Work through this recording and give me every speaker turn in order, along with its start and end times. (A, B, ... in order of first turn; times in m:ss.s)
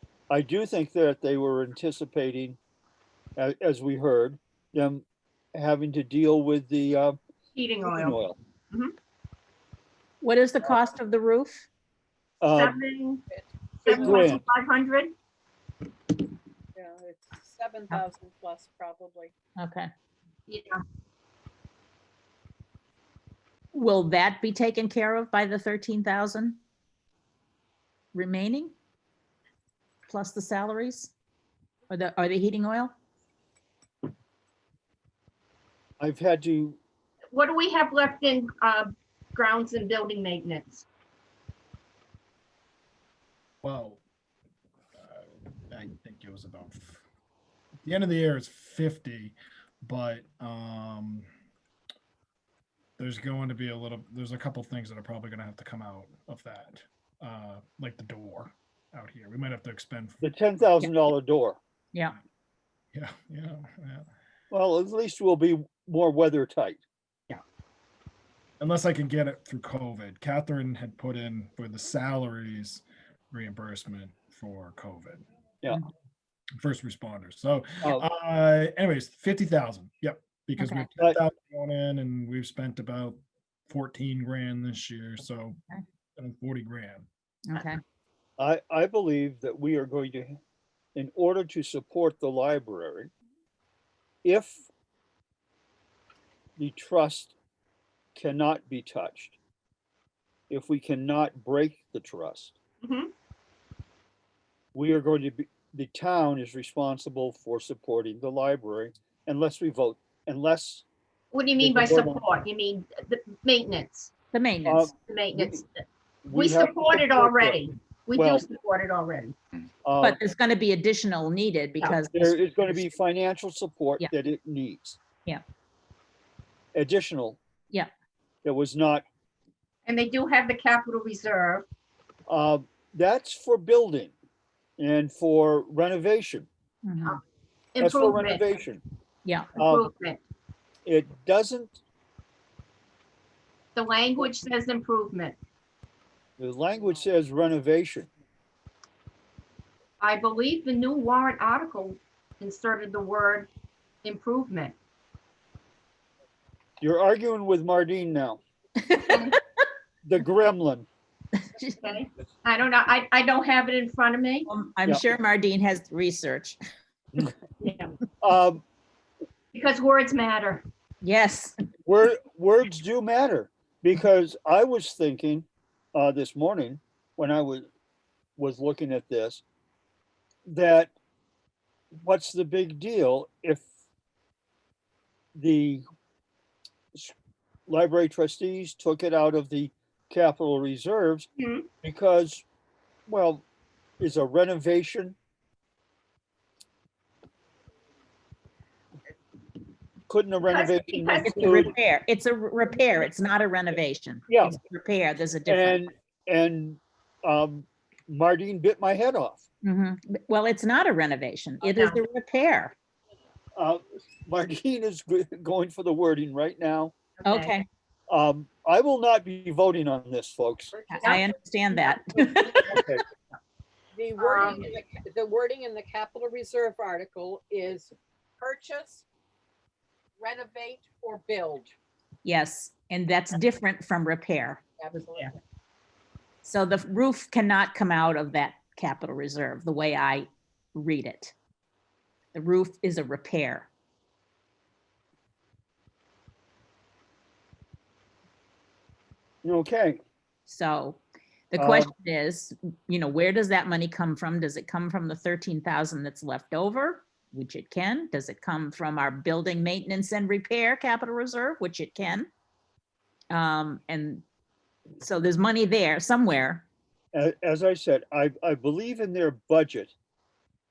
0:00.3-0:02.6 A
0:03.4-0:05.0 A
0:05.6-0:07.2 A
0:07.6-0:08.2 B
0:07.8-0:08.4 A
0:10.2-0:11.7 C
0:12.4-0:12.8 A
0:12.5-0:13.2 B
0:13.8-0:15.1 B
0:13.9-0:14.4 A
0:16.8-0:19.3 D
0:19.6-0:19.9 C
0:20.5-0:20.8 B
0:23.7-0:26.6 C
0:28.1-0:28.7 C
0:30.1-0:31.1 C
0:31.9-0:33.0 C
0:36.0-0:36.8 A
0:37.3-0:40.9 B
0:43.6-0:44.0 E
0:45.0-0:47.0 E
0:47.8-0:49.3 E
0:49.8-0:51.3 E
0:53.0-1:00.2 E
1:00.2-1:01.6 A
1:02.9-1:04.1 E
1:04.5-1:06.8 A
1:08.6-1:15.2 E
1:16.6-1:25.6 E
1:20.6-1:20.9 C
1:26.2-1:27.1 E
1:27.5-1:27.8 C
1:28.4-1:30.4 A
1:31.0-1:33.1 A
1:34.2-1:34.6 A
1:36.6-1:37.4 A
1:38.2-1:39.4 A
1:40.5-1:42.6 A
1:42.8-1:43.1 B
1:44.8-1:50.8 A
1:51.3-1:54.1 B
1:51.6-1:52.2 A
1:54.3-1:54.9 C
1:54.7-1:55.6 A
1:55.0-1:59.4 B
1:56.2-1:57.6 A
1:58.2-1:58.4 A
1:59.8-2:00.2 A
2:00.0-2:02.8 C
2:02.1-2:05.0 A
2:06.8-2:07.4 A
2:08.4-2:09.0 A
2:09.9-2:11.6 B
2:12.3-2:14.1 A
2:14.8-2:16.5 A
2:16.8-2:17.2 C
2:17.8-2:18.5 B
2:17.8-2:18.8 A
2:19.6-2:19.9 A
2:19.6-2:20.2 B
2:20.9-2:21.8 A
2:23.8-2:25.4 B
2:26.4-2:28.1 A
2:30.0-2:33.5 B
2:34.0-2:34.8 B
2:36.8-2:38.4 A
2:38.9-2:39.4 C
2:39.1-2:39.3 B
2:40.0-2:40.9 A
2:41.5-2:41.8 C
2:41.8-2:44.5 B
2:44.5-2:46.6 C
2:47.6-2:48.0 B
2:48.2-2:48.6 A
2:49.5-2:50.6 B
2:51.0-2:51.5 C
2:51.9-2:57.7 A
2:58.4-2:59.4 A
3:00.5-3:00.9 A
3:01.9-3:03.7 A
3:05.4-3:05.8 A
3:07.7-3:11.3 A
3:11.4-3:11.7 B
3:11.8-3:12.4 A
3:13.1-3:13.4 A
3:14.0-3:15.2 A
3:20.1-3:21.7 A
3:20.5-3:21.7 B
3:21.3-3:25.8 C
3:24.3-3:24.6 A
3:25.5-3:29.4 A
3:29.6-3:32.7 C
3:31.6-3:32.0 B
3:33.6-3:36.9 A
3:37.2-3:37.5 B
3:37.2-3:37.7 C
3:38.1-3:40.8 A
3:40.7-3:41.2 D
3:40.9-3:42.8 C
3:42.7-3:43.0 A
3:44.0-3:49.0 D
3:44.2-3:44.7 B
3:50.2-3:51.7 D
3:52.2-3:54.6 C
3:54.8-3:55.2 D
3:56.4-4:01.3 C
4:02.3-4:03.7 C
4:09.4-4:10.0 A
4:10.5-4:22.3 C
4:11.6-4:11.9 A
4:23.3-4:24.2 C
4:25.0-4:26.6 C
4:27.1-4:29.9 A